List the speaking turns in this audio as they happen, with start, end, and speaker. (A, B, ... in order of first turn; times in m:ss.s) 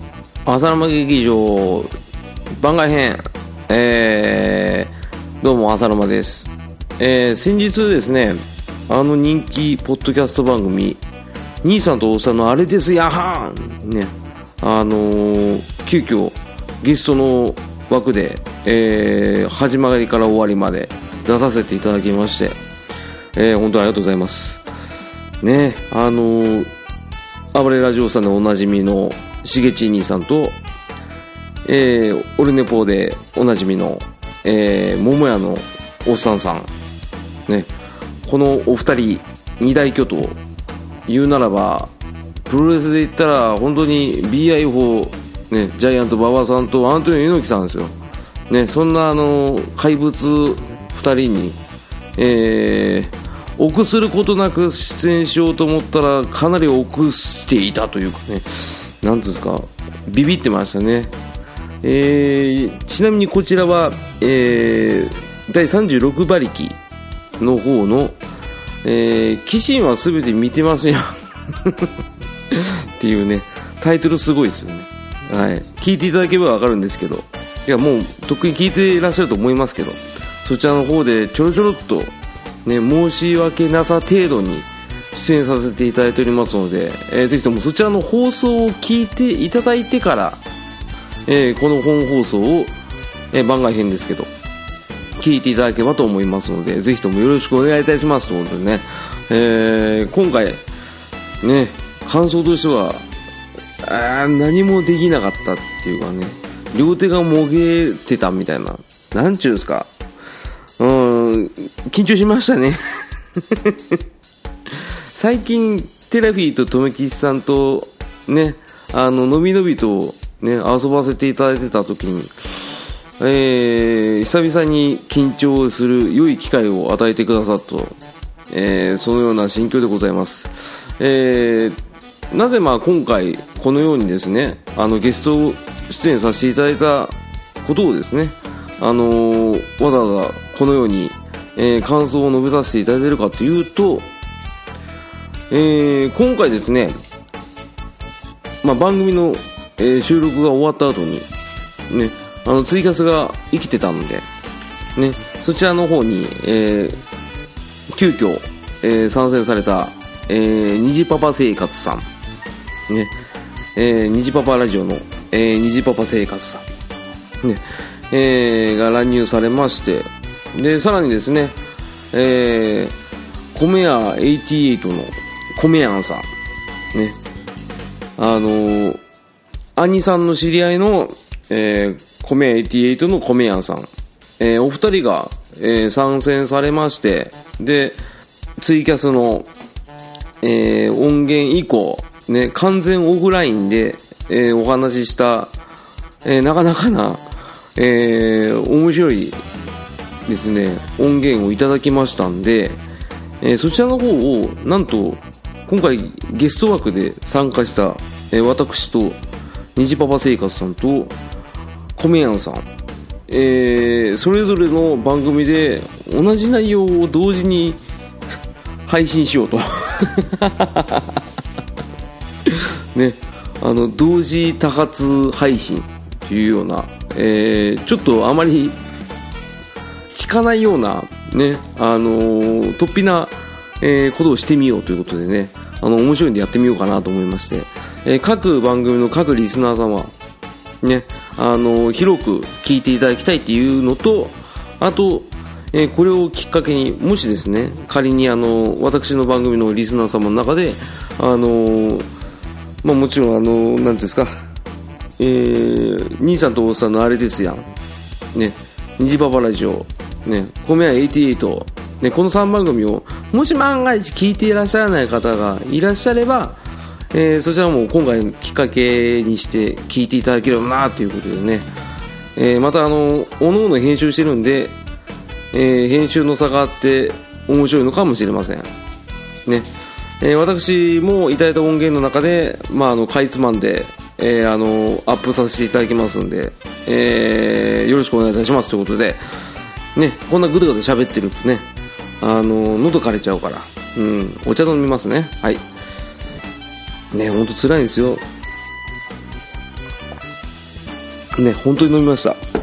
0:00.4-0:01.9 A
0:02.5-0:04.9 A
0:05.4-0:11.0 A
0:11.6-0:22.6 A
0:23.4-0:24.6 A
0:25.4-0:26.7 A
0:27.5-0:30.6 A
0:31.6-0:36.7 A
0:38.2-0:40.4 A
0:41.1-0:41.9 A
0:42.5-0:47.9 A
0:48.5-0:51.6 A
0:52.2-1:01.1 A
1:01.8-1:06.8 A
1:07.4-1:08.2 A
1:08.8-1:11.9 A
1:12.5-1:22.1 A
1:22.6-1:30.4 A
1:31.2-1:32.7 A
1:33.3-1:34.3 A
1:35.2-1:40.6 A
1:41.4-1:43.0 A
1:43.8-1:49.9 A
1:50.8-1:52.8 A
1:55.1-2:08.0 A
2:08.5-2:11.8 A
2:12.3-2:24.1 A
2:25.5-2:27.0 A
2:28.6-2:31.3 A
2:31.9-2:34.2 A
2:35.0-2:37.0 A
2:37.9-2:42.0 A
2:43.8-2:46.6 A
2:47.4-2:51.6 A
2:52.1-2:52.9 A
2:53.5-2:56.3 A
2:56.9-2:57.2 A
2:58.2-2:59.0 A
2:59.8-3:03.9 A
3:04.4-3:08.0 A
3:08.6-3:09.5 A
3:10.4-3:15.5 A
3:16.2-3:19.4 A
3:20.3-3:22.8 A
3:23.4-3:29.2 A
3:29.8-3:31.1 A
3:32.0-3:32.6 A
3:33.3-3:37.8 A
3:38.9-3:41.0 A
3:42.5-3:48.8 A
3:50.1-4:00.1 A
4:00.8-4:12.1 A
4:12.8-4:14.4 A
4:15.2-4:17.7 A
4:18.3-4:26.6 A
4:27.1-4:31.7 A
4:32.4-4:34.8 A
4:35.5-4:38.7 A
4:40.2-4:49.2 A
4:50.0-4:51.6 A
4:52.2-4:55.6 A
4:57.1-4:58.2 A
5:01.4-5:02.4 A